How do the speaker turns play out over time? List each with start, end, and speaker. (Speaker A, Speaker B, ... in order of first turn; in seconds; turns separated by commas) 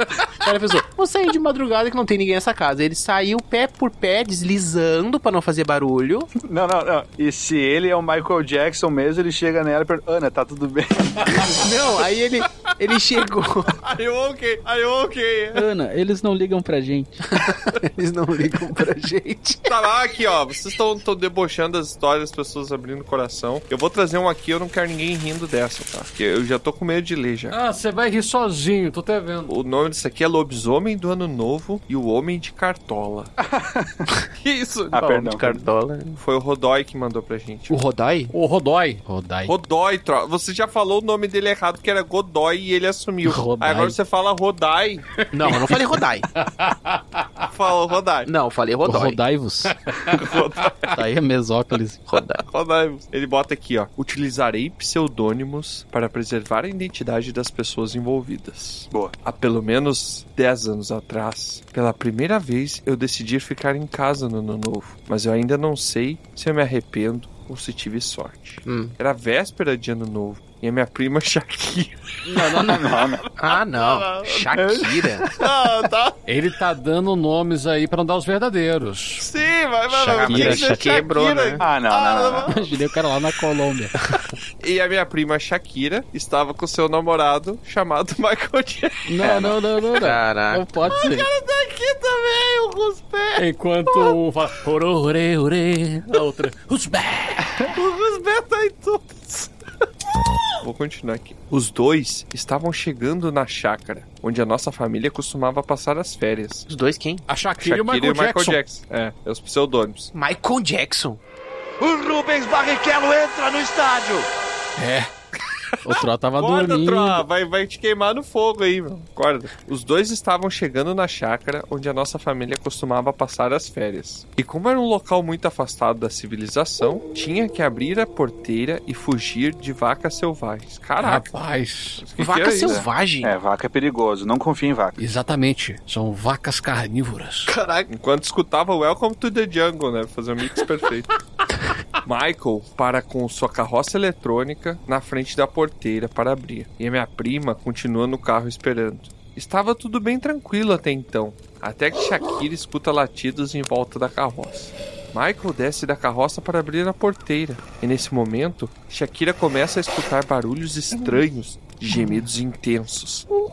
Speaker A: 0.4-6.3, Speaker B: 6.4-11.5, Speaker A: 11.3-13.8, Speaker C: 13.8-15.6, Speaker D: 15.5-17.2, Speaker A: 17.3-19.8, Speaker C: 19.7-27.6, Speaker E: 27.5-29.5, Speaker C: 29.5-33.3, Speaker B: 33.4-34.0, Speaker C: 34.4-35.2, Speaker B: 34.9-35.6, Speaker A: 35.1-36.2, Speaker C: 36.1-37.8, Speaker A: 37.7-38.3, Speaker E: 38.3-39.0, Speaker D: 39.0-39.5, Speaker C: 39.5-45.1, Speaker D: 43.2-44.0, Speaker E: 45.2-45.7, Speaker A: 45.3-46.3, Speaker E: 46.3-47.5, Speaker C: 47.5-48.3, Speaker A: 48.3-49.2, Speaker D: 48.8-49.8, Speaker E: 49.7-50.7, Speaker C: 50.2-50.9, Speaker D: 50.9-52.1, Speaker A: 52.1-52.4, Speaker C: 52.4-74.5, Speaker A: 68.7-68.9, Speaker E: 72.3-72.8, Speaker B: 72.6-73.2, Speaker A: 73.4-75.3, Speaker B: 74.5-75.1, Speaker C: 75.3-76.2, Speaker E: 76.3-79.3, Speaker C: 79.2-82.7, Speaker D: 79.9-81.0, Speaker A: 80.1-81.6, Speaker B: 81.6-82.5, Speaker D: 82.5-83.9, Speaker C: 84.6-89.1, Speaker D: 89.0-91.3, Speaker A: 90.0-91.1, Speaker C: 90.9-93.3, Speaker E: 93.3-97.6, Speaker C: 97.6-99.5, Speaker C: 100.6-106.7, Speaker A: 106.7-107.3, Speaker E: 107.3-108.6, Speaker C: 107.6-110.1, Speaker A: 110.1-111.2, Speaker E: 111.8-114.2, Speaker E: 114.8-115.1, Speaker C: 115.7-131.3, Speaker D: 115.8-117.2, Speaker E: 131.0-132.1, Speaker C: 132.0-132.8, Speaker A: 132.2-133.3, Speaker B: 132.6-135.0, Speaker E: 135.0-137.5, Speaker A: 137.5-137.9, Speaker C: 137.9-141.1, Speaker C: 142.0-163.3